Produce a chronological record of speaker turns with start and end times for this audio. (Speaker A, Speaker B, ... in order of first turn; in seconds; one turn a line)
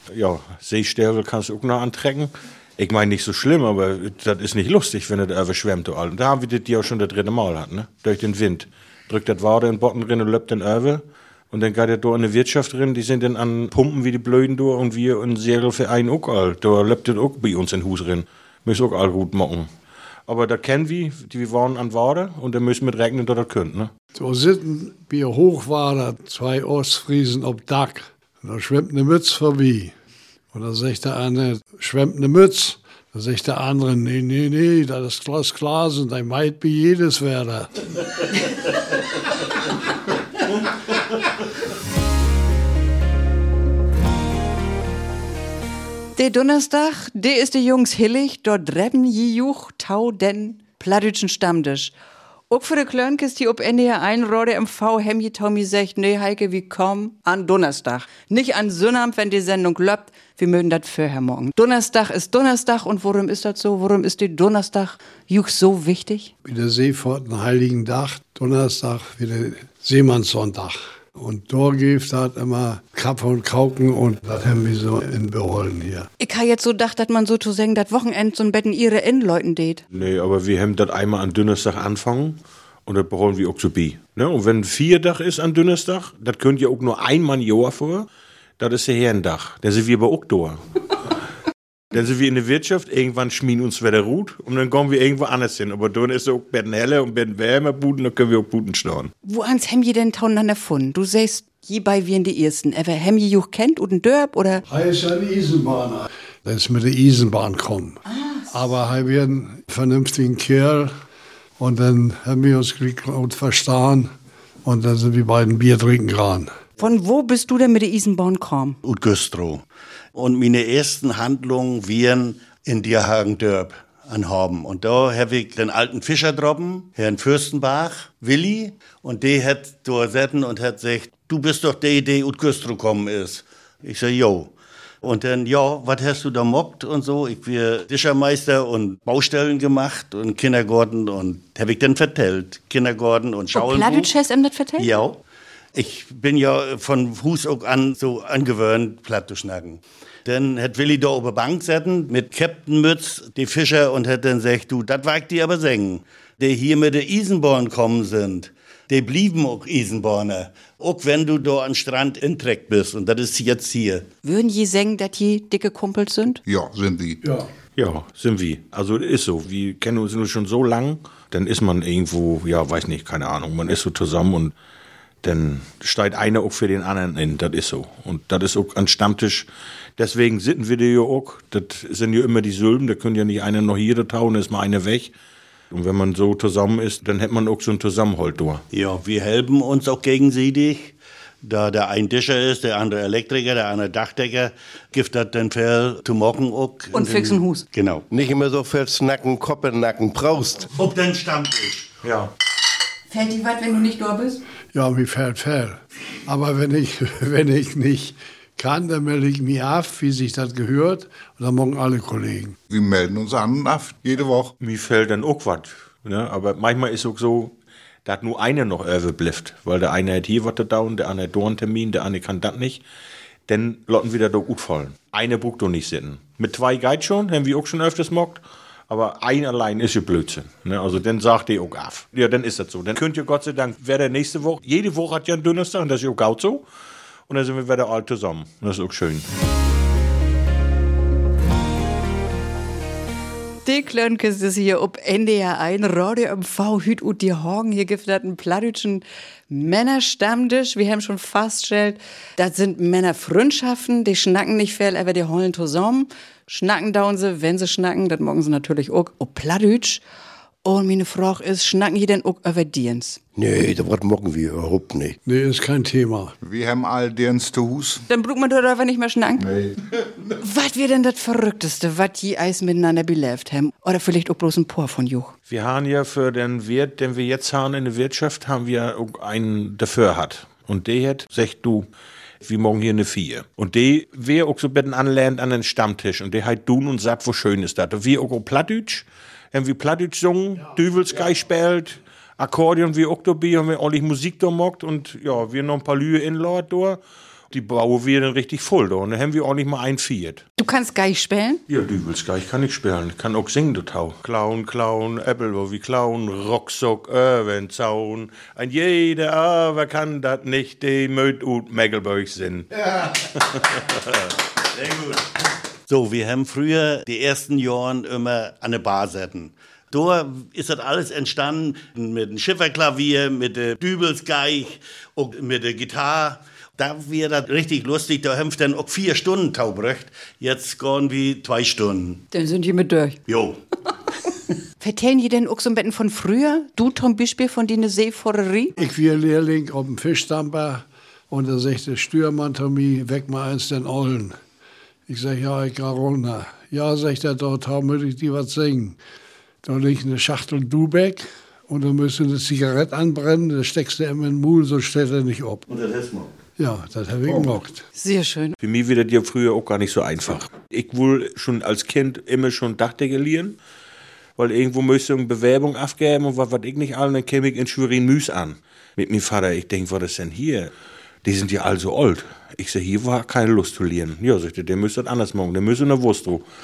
Speaker A: 0.1-19.7
Speaker A: 20.3-23.9
Speaker B: 24.1-29.9
Speaker B: 30.5-37.8
Speaker C: 46.2-51.9
Speaker C: 52.5-66.3
Speaker B: 66.4-76.1
Speaker C: 76.2-79.8
Speaker A: 79.9-88.1
Speaker A: 88.6-90.6
Speaker A: 91.9-99.1
Speaker C: 99.2-104.6
Speaker B: 104.7-110.9
Speaker C: 108.1-108.5
Speaker B: 111.6-114.1
Speaker B: 114.6-116.5
Speaker C: 116.8-118.8
Speaker D: 118.8-119.6
Speaker D: 120.2-144.1
Speaker C: 143.5-145.0
Speaker D: 144.8-145.2
Speaker D: 145.7-164.1
Speaker C: 164.2-166.4
Speaker E: 166.5-167.2
Speaker B: 167.2-167.5
Speaker A: 167.8-174.5
Speaker A: 175.2-185.1
Speaker A: 185.7-188.6
Speaker D: 188.7-198.1
Speaker C: 196.9-197.6
Speaker F: 198.1-200.7
Speaker D: 200.8-201.9
Speaker A: 202.0-202.3
Speaker C: 203.1-204.4
Speaker B: 204.7-212.6
Speaker E: 212.7-214.5
Speaker A: 214.6-217.5
Speaker A: 218.1-222.8
Speaker A: 223.5-236.7
Speaker A: 237.3-239.3
Speaker C: 243.7-260.0
Speaker C: 260.6-263.2
Speaker F: 263.4-265.2
Speaker B: 265.3-266.3
Speaker E: 266.4-268.1
Speaker C: 268.1-269.5
Speaker E: 269.4-270.1
Speaker C: 270.4-275.3
Speaker A: 275.5-281.9
Speaker A: 282.4-297.0
Speaker A: 297.5-300.4
Speaker C: 300.6-301.6
Speaker A: 301.7-313.6
Speaker D: 314.7-315.3
Speaker D: 315.9-332.2
Speaker C: 332.3-333.2
Speaker D: 333.3-333.6
Speaker C: 334.8-338.8
Speaker B: 338.8-344.4
Speaker B: 345.1-349.0
Speaker B: 349.6-355.6
Speaker D: 355.7-356.3
Speaker B: 356.6-357.8
Speaker C: 357.9-358.6
Speaker A: 358.6-363.6
Speaker A: 364.4-370.7
Speaker A: 371.2-376.4